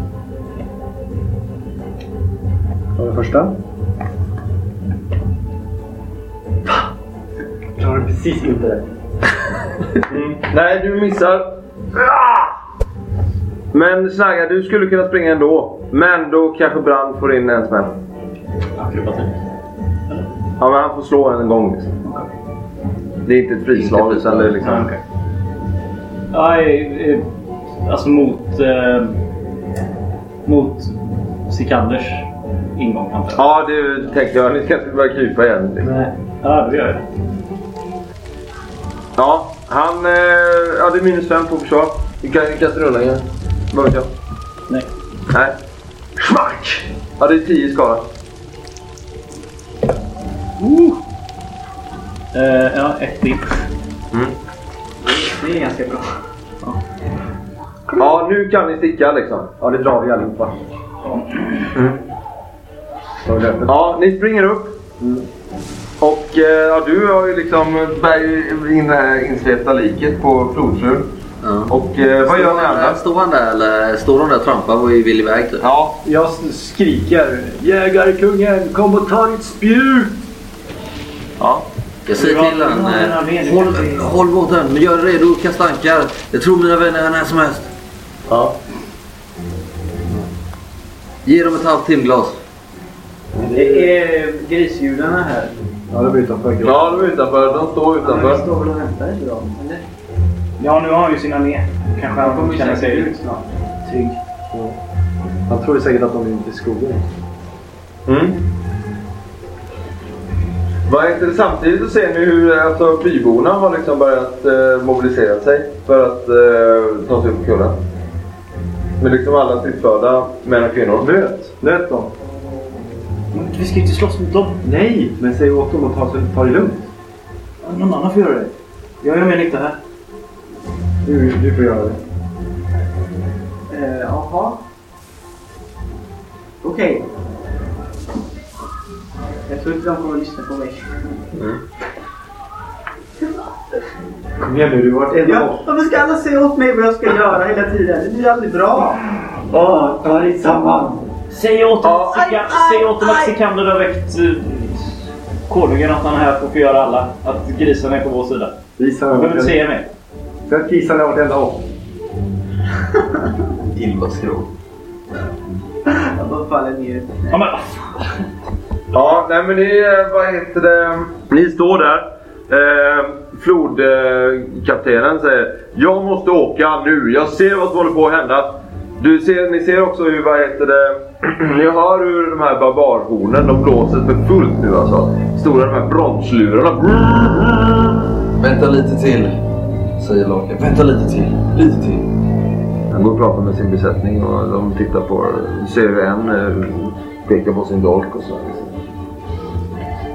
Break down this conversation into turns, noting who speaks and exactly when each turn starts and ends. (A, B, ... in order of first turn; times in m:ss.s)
0:03.0-0:03.5 A
0:07.8-0:08.8 A
0:10.1-0:12.5 B
0:13.7-0:17.9 B
0:18.8-0:19.3 C
0:20.6-0:22.0 B
0:22.0-0:22.3 C
0:23.2-0:24.9 B
0:23.7-0:24.5 D
0:24.6-0:25.0 C
0:26.3-0:27.2 C
0:27.8-0:29.2 C
0:30.4-0:30.9 C
0:31.5-0:33.4 C
0:33.3-0:35.9 B
0:35.8-0:37.0 C
0:39.2-0:44.1 B
0:46.2-0:48.0 B
0:50.6-0:51.0 C
0:52.3-0:53.6 C
0:55.0-0:56.1 E
0:58.0-0:59.5 B
0:59.6-1:00.5 A
1:01.7-1:02.0 B
1:03.2-1:03.7 A
1:03.6-1:04.8 B
1:05.0-1:05.2 A
1:06.0-1:11.1 B
1:11.4-1:11.7 D
1:11.7-1:13.0 B
1:12.2-1:15.6 D
1:15.6-1:16.0 B
1:16.0-1:20.2 A
1:21.4-1:21.7 B
1:22.0-1:27.7 D
1:22.1-1:24.1 C
1:28.3-1:28.6 B
1:31.2-1:32.4 D
1:33.4-1:33.9 A
1:33.5-1:35.6 E
1:35.9-1:37.1 A
1:36.6-1:38.4 B
1:37.4-1:39.8 E
1:40.6-1:43.1 C
1:42.1-1:43.4 E
1:43.8-1:44.2 C
1:44.5-1:44.8 A
1:45.5-1:47.0 A
1:48.1-1:48.4 B
1:50.8-1:57.8 B
1:59.0-2:01.1 B
2:01.0-2:02.1 A
2:03.3-2:04.6 C
2:04.6-2:06.8 A
2:07.6-2:09.8 C
2:11.0-2:12.0 A
2:13.7-2:14.6 E
2:16.6-2:17.0 E
2:19.5-2:21.0 E
2:21.3-2:21.6 B
2:24.4-2:25.6 A
2:25.2-2:29.0 E
2:29.5-2:31.0 A
2:31.3-2:34.9 C
2:32.1-2:33.3 E
2:35.5-2:38.6 C
2:38.8-2:39.6 A
2:39.1-2:39.9 C
2:40.5-2:41.6 A
2:43.6-2:44.5 D
2:45.8-2:47.4 E
2:47.3-2:47.6 C
2:48.9-3:07.8 B
3:08.4-3:09.4 D
3:10.0-3:12.1 D
3:12.9-3:18.7 B